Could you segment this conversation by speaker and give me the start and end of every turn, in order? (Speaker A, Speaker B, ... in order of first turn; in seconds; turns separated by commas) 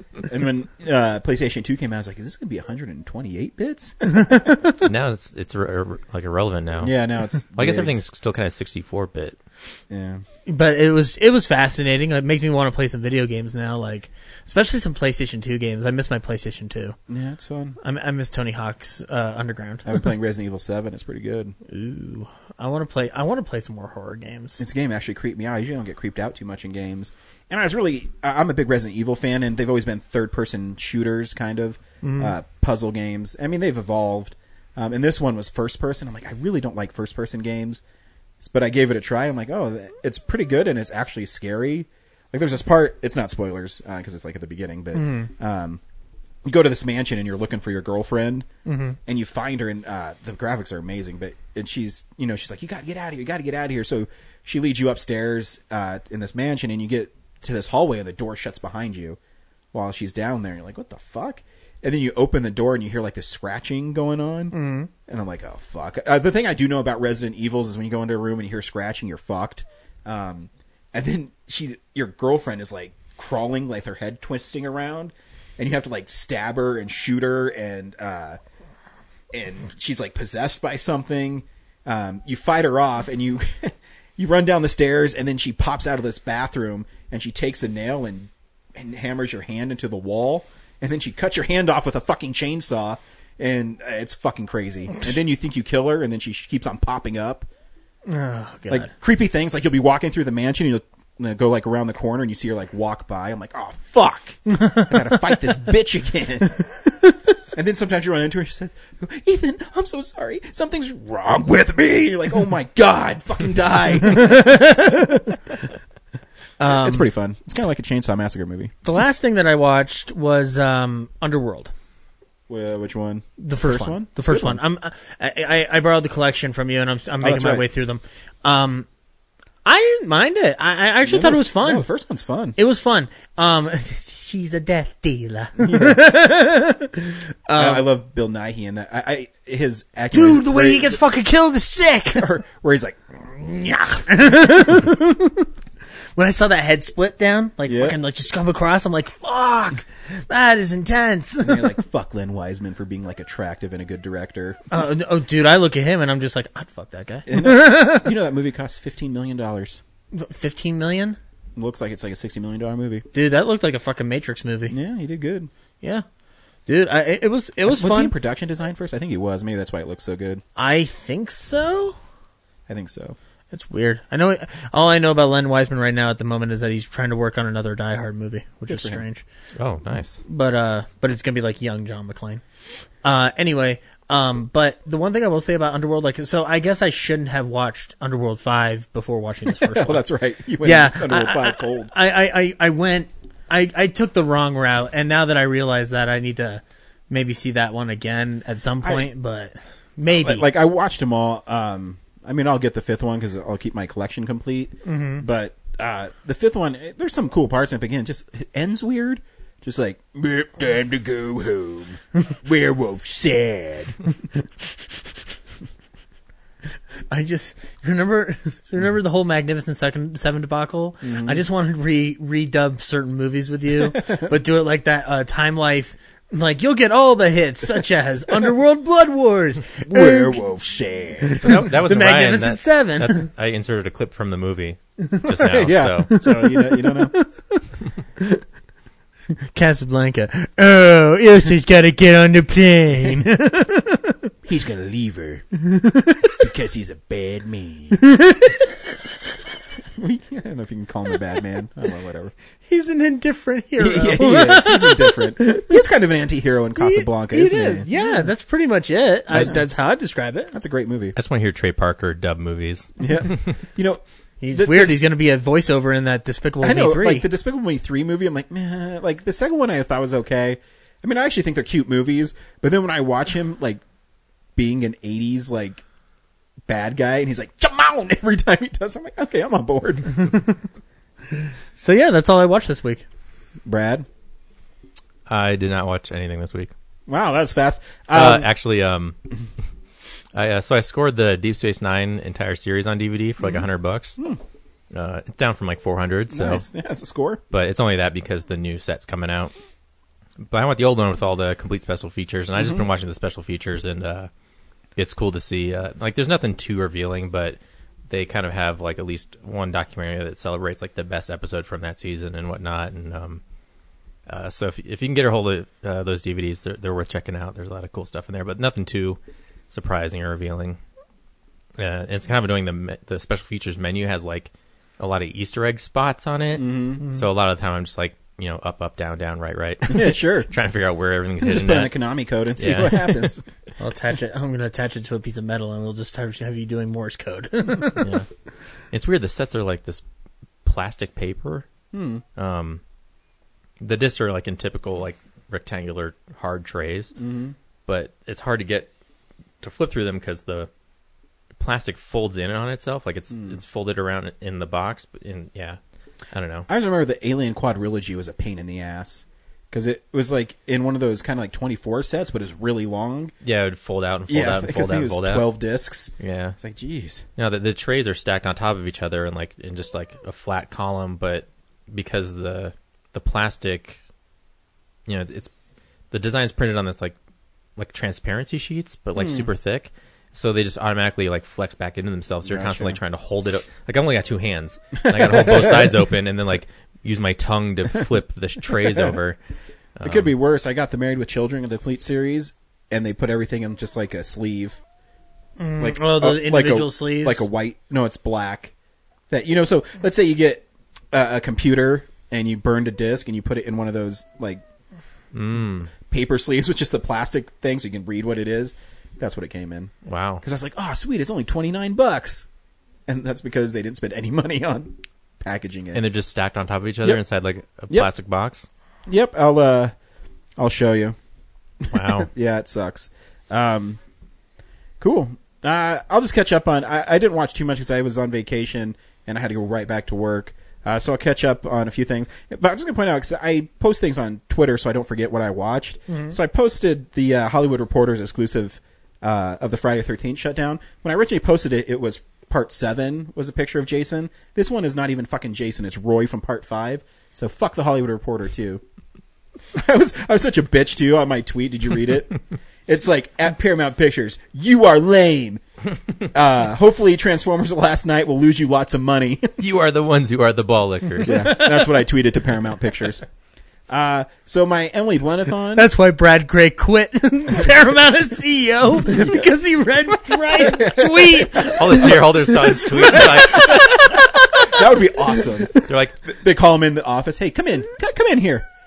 Speaker A: 0.2-4.3, Speaker B: 4.1-4.7, Speaker C: 4.8-7.0, Speaker A: 6.8-8.0, Speaker C: 7.5-9.4, Speaker A: 9.9-10.2, Speaker B: 10.5-17.0, Speaker A: 17.1-17.8, Speaker B: 17.8-20.1, Speaker A: 19.9-21.6, Speaker B: 21.7-24.6, Speaker A: 24.6-37.8, Speaker B: 32.0-32.3, Speaker A: 38.4-45.8, Speaker B: 44.9-45.3, Speaker A: 46.5-48.5, Speaker B: 48.6-49.0, Speaker A: 49.1-59.2, Speaker A: 59.7-78.4, Speaker B: 64.5-64.9, Speaker A: 79.3-97.5, Speaker B: 98.1-98.9, Speaker A: 98.7-106.6, Speaker A: 107.5-115.0, Speaker B: 114.2-115.2, Speaker B: 116.6-117.1, Speaker A: 116.6-118.7, Speaker B: 118.8-121.7, Speaker A: 122.5-124.6, Speaker B: 123.4-128.9, Speaker A: 127.2-127.6, Speaker B: 129.7-131.9, Speaker A: 131.1-132.6, Speaker B: 132.6-137.9, Speaker A: 135.6-136.2, Speaker A: 137.6-141.0, Speaker B: 140.1-142.3, Speaker A: 142.1-143.7, Speaker B: 143.5-145.5, Speaker B: 146.2-151.8, Speaker A: 147.7-148.0, Speaker A: 151.4-154.6, Speaker B: 154.7-158.1, Speaker A: 157.3-159.8, Speaker B: 160.1-161.2, Speaker A: 161.6-163.1, Speaker B: 163.1-164.8, Speaker A: 164.7-165.5, Speaker B: 166.7-168.2, Speaker A: 167.7-170.4, Speaker B: 170.6-172.0, Speaker A: 172.7-173.2, Speaker B: 173.5-179.2, Speaker A: 178.7-179.0, Speaker C: 179.6-180.2, Speaker B: 180.3-182.4, Speaker B: 183.0-190.0, Speaker A: 189.6-191.9, Speaker B: 190.6-200.5, Speaker A: 198.8-199.1, Speaker A: 200.1-214.0, Speaker B: 204.8-205.2, Speaker B: 217.1-230.4, Speaker A: 221.0-221.4, Speaker A: 223.9-224.3, Speaker A: 229.8-231.4, Speaker B: 231.2-233.3, Speaker C: 231.4-236.1, Speaker A: 235.3-237.2, Speaker B: 236.1-237.6, Speaker B: 239.5-244.3, Speaker A: 244.4-245.4, Speaker B: 245.6-246.3, Speaker A: 246.3-248.1, Speaker B: 247.9-248.8, Speaker A: 250.0-252.3, Speaker B: 252.7-255.8, Speaker A: 253.8-258.3, Speaker B: 256.8-260.5, Speaker A: 259.3-259.6, Speaker A: 260.5-261.2, Speaker C: 261.2-263.4, Speaker A: 263.0-265.0, Speaker B: 264.4-267.3, Speaker A: 266.6-273.8, Speaker A: 274.6-275.8, Speaker A: 276.7-280.4, Speaker B: 281.3-283.1, Speaker A: 283.7-284.1, Speaker C: 285.3-286.7, Speaker A: 287.1-288.5, Speaker C: 288.1-289.2, Speaker C: 290.3-294.2, Speaker C: 294.9-296.6, Speaker A: 296.3-297.4, Speaker C: 297.5-299.5, Speaker C: 300.4-304.3, Speaker A: 302.6-302.8, Speaker C: 305.0-307.6, Speaker C: 308.1-313.4, Speaker C: 314.3-319.2, Speaker C: 319.7-320.8, Speaker C: 321.8-332.0, Speaker A: 326.6-327.1, Speaker A: 329.9-330.5, Speaker A: 331.4-333.4, Speaker C: 332.6-333.3, Speaker B: 333.8-338.1, Speaker C: 338.0-338.3, Speaker C: 338.9-340.0, Speaker C: 340.6-341.7, Speaker A: 341.9-342.2, Speaker C: 342.4-342.8, Speaker C: 343.8-347.2, Speaker A: 347.2-347.6, Speaker C: 347.9-348.9, Speaker C: 349.6-350.7, Speaker C: 351.6-355.8, Speaker A: 353.3-353.6, Speaker C: 356.3-356.7, Speaker A: 356.7-363.3, Speaker C: 363.4-365.5, Speaker A: 364.3-367.2, Speaker C: 366.2-366.6, Speaker C: 367.4-374.0, Speaker C: 375.1-375.5, Speaker C: 376.1-377.2, Speaker C: 377.8-389.4, Speaker A: 379.2-379.5, Speaker A: 382.4-383.0, Speaker A: 385.0-385.9, Speaker C: 390.0-390.3, Speaker A: 390.0-394.8, Speaker B: 395.6-397.5, Speaker A: 395.8-398.7, Speaker A: 399.3-404.6, Speaker C: 405.3-405.9, Speaker A: 406.0-412.5, Speaker C: 410.1-410.4, Speaker A: 413.1-416.0, Speaker C: 415.9-418.7, Speaker A: 419.1-419.9, Speaker A: 420.6-421.2, Speaker A: 421.9-424.0, Speaker C: 421.9-422.3, Speaker A: 425.0-448.8, Speaker B: 436.1-436.4, Speaker A: 449.7-455.6, Speaker A: 456.3-459.5, Speaker C: 459.6-461.6, Speaker A: 461.2-463.2, Speaker A: 463.9-465.9, Speaker B: 465.7-472.1, Speaker A: 470.7-471.7, Speaker C: 471.6-474.2, Speaker B: 472.8-473.9, Speaker A: 473.2-478.7, Speaker C: 475.9-476.2